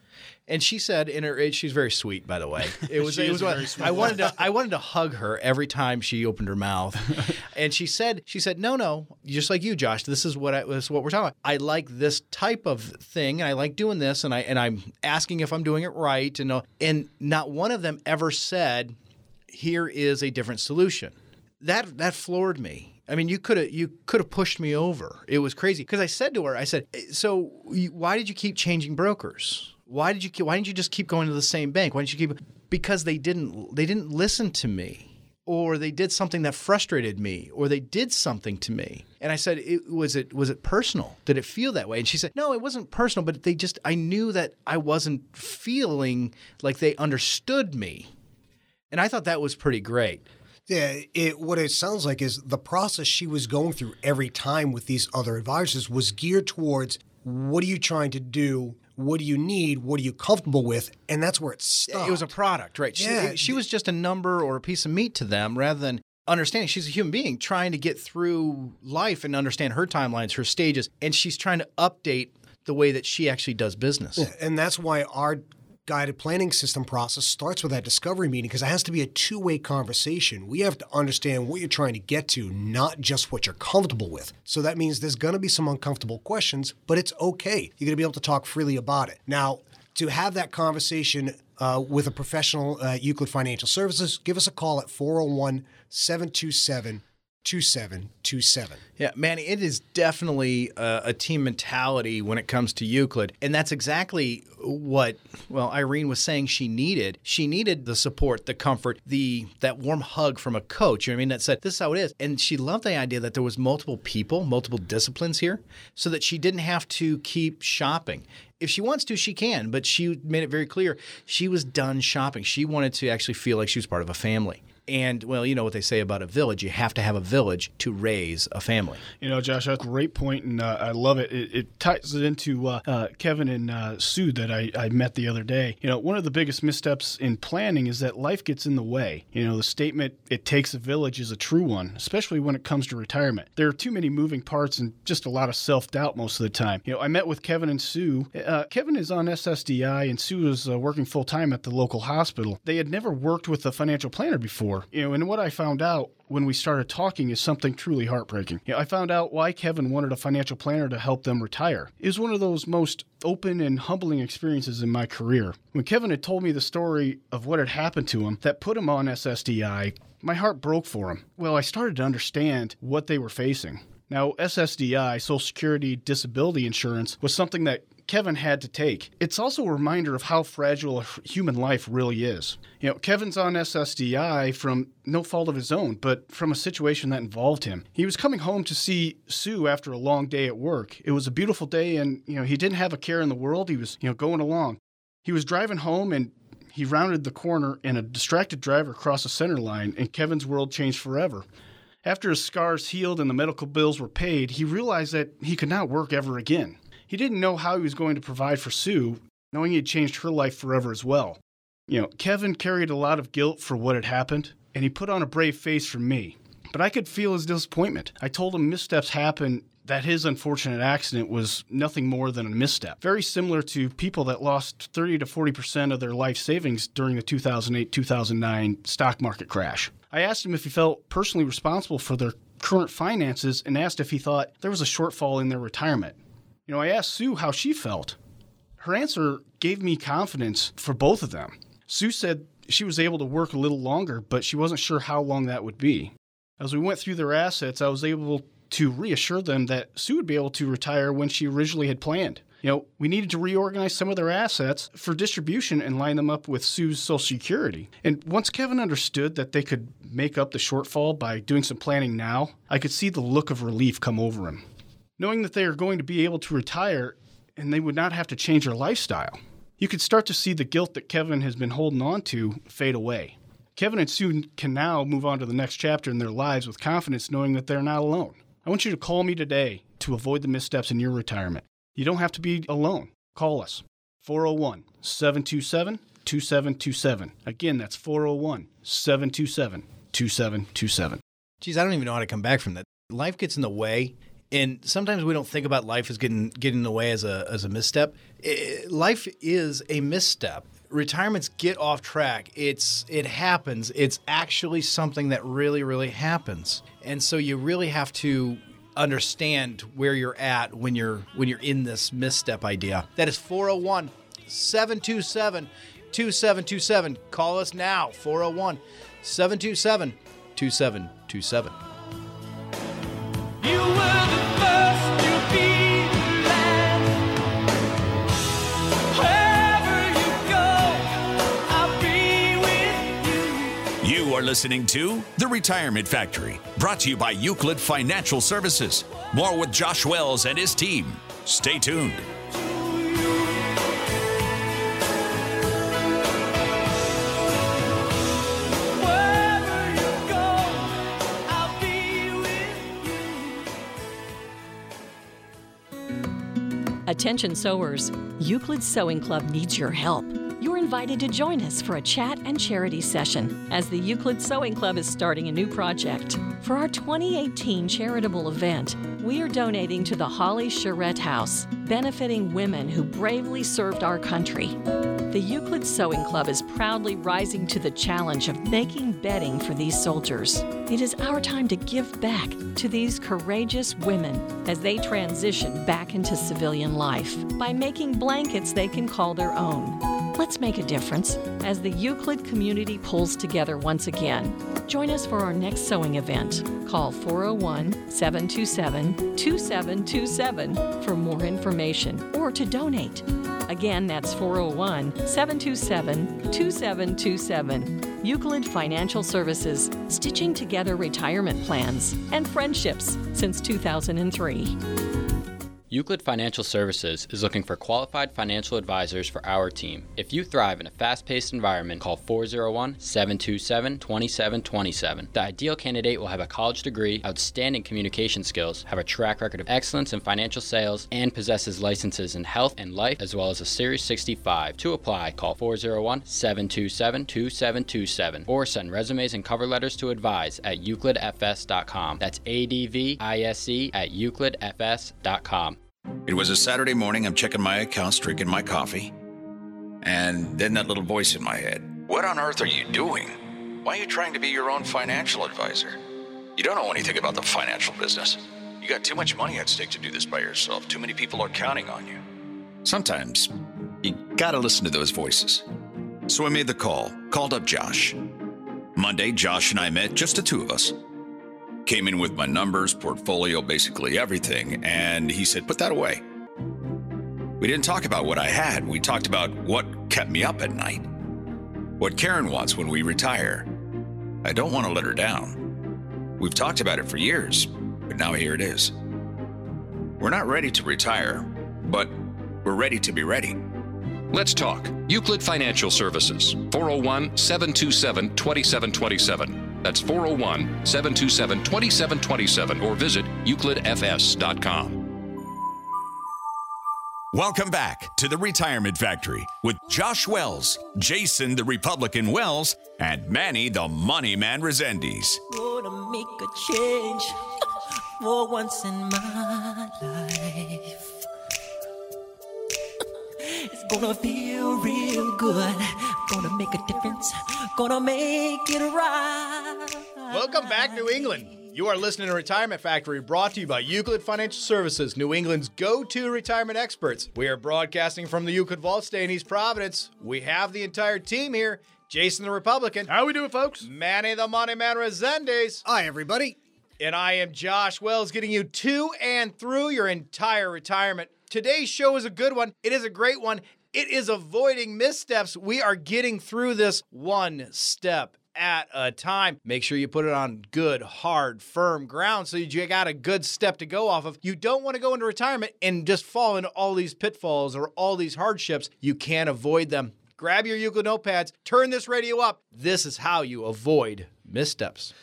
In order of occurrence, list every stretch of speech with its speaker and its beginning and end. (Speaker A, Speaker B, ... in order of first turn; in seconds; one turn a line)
Speaker A: 0.5-18.9
Speaker B: 2.8-4.4
Speaker A: 19.5-48.1
Speaker A: 48.9-50.2
Speaker C: 50.7-62.3
Speaker A: 61.9-74.3
Speaker C: 63.0-63.6
Speaker C: 74.2-98.8
Speaker A: 99.0-129.0
Speaker B: 129.2-201.4
Speaker B: 202.0-238.2
Speaker B: 238.8-264.6
Speaker B: 265.2-291.2
Speaker A: 291.6-321.8
Speaker D: 330.3-331.0
Speaker D: 331.7-333.4
Speaker E: 334.0-342.3
Speaker D: 349.3-350.4
Speaker D: 351.7-353.0
Speaker F: 357.1-374.8
Speaker F: 375.3-414.8
Speaker G: 415.9-445.8
Speaker E: 446.3-449.1
Speaker E: 450.0-456.0
Speaker E: 456.6-462.2
Speaker E: 462.8-465.7
Speaker E: 466.3-468.2
Speaker E: 468.9-471.0
Speaker E: 471.9-476.2
Speaker E: 477.6-481.1
Speaker E: 482.0-483.7
Speaker E: 484.4-485.8
Speaker E: 486.4-488.9
Speaker E: 490.2-493.6
Speaker H: 494.3-505.1
Speaker E: 507.3-515.4
Speaker D: 515.5-517.4
Speaker D: 518.2-521.1
Speaker D: 523.4-531.5
Speaker A: 530.3-543.1
Speaker B: 543.1-543.9
Speaker A: 543.8-545.8
Speaker C: 545.9-546.6
Speaker A: 547.0-575.1